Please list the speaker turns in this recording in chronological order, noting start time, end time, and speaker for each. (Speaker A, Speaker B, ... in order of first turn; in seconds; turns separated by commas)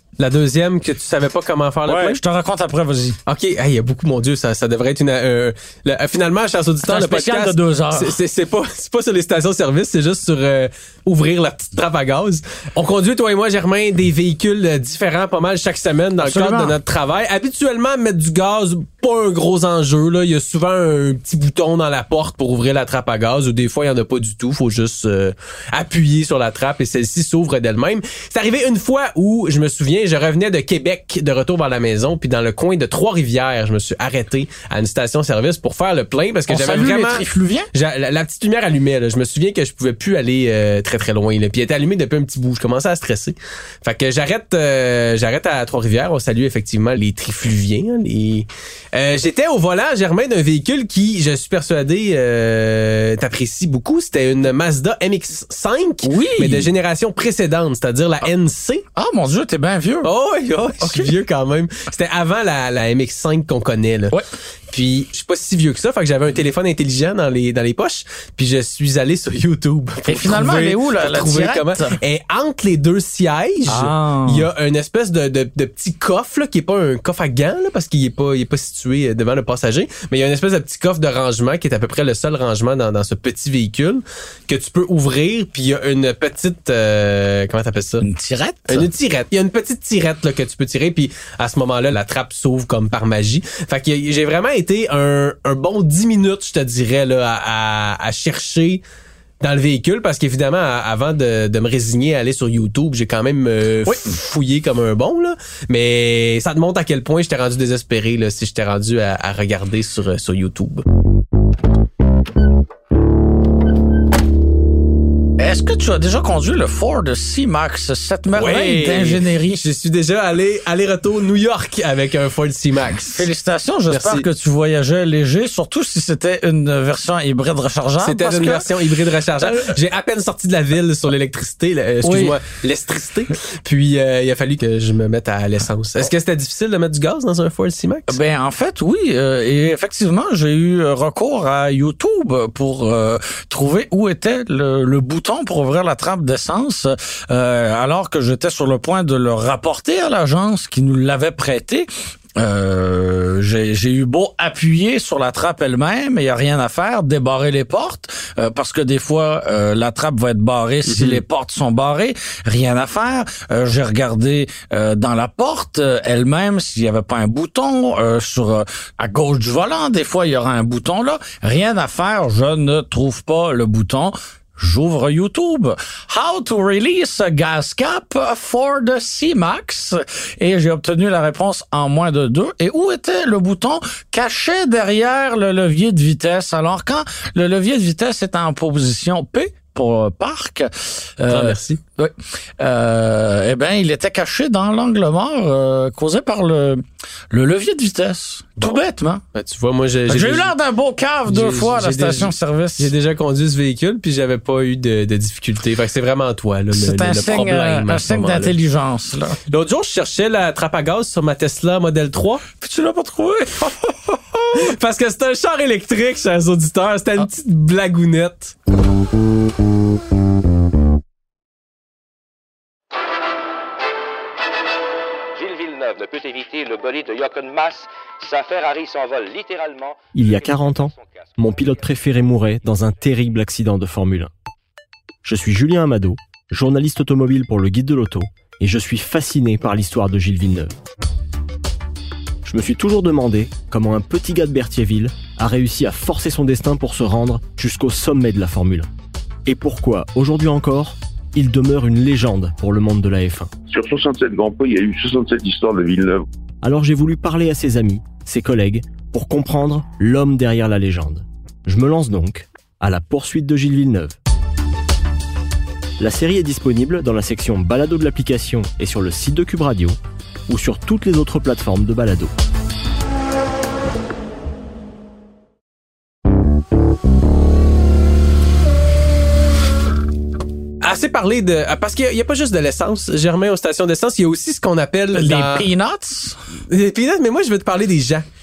Speaker A: 0.2-2.2, Speaker B: 1.9-3.2, Speaker A: 3.2-58.8, Speaker B: 6.8-8.2, Speaker B: 16.2-16.8, Speaker B: 36.5-37.7, Speaker B: 56.0-56.7, Speaker B: 58.9-60.1, Speaker A: 60.0-64.2, Speaker B: 60.8-61.1, Speaker A: 64.7-88.0, Speaker B: 70.1-72.0, Speaker B: 73.7-74.5, Speaker B: 88.0-88.9, Speaker A: 88.7-98.8, Speaker A: 99.4-110.8, Speaker B: 115.4-119.6, Speaker A: 118.3-123.3, Speaker B: 123.1-128.7, Speaker A: 123.9-124.3, Speaker A: 128.0-138.2, Speaker B: 129.4-129.8, Speaker B: 132.0-132.4, Speaker B: 138.1-199.2, Speaker A: 160.9-161.2, Speaker A: 191.3-191.8, Speaker A: 199.3-200.5, Speaker B: 200.1-202.9, Speaker A: 201.3-208.5, Speaker B: 206.7-209.4, Speaker A: 209.5-212.4, Speaker B: 212.6-214.7, Speaker A: 214.5-218.5, Speaker C: 225.4-231.8, Speaker D: 230.1-234.3, Speaker D: 235.2-240.7, Speaker D: 242.4-248.9, Speaker D: 249.4-253.5, Speaker E: 253.7-256.2, Speaker D: 256.6-264.1, Speaker D: 266.0-270.0, Speaker D: 270.5-272.3, Speaker A: 280.8-285.6, Speaker B: 285.1-286.4, Speaker A: 286.7-288.2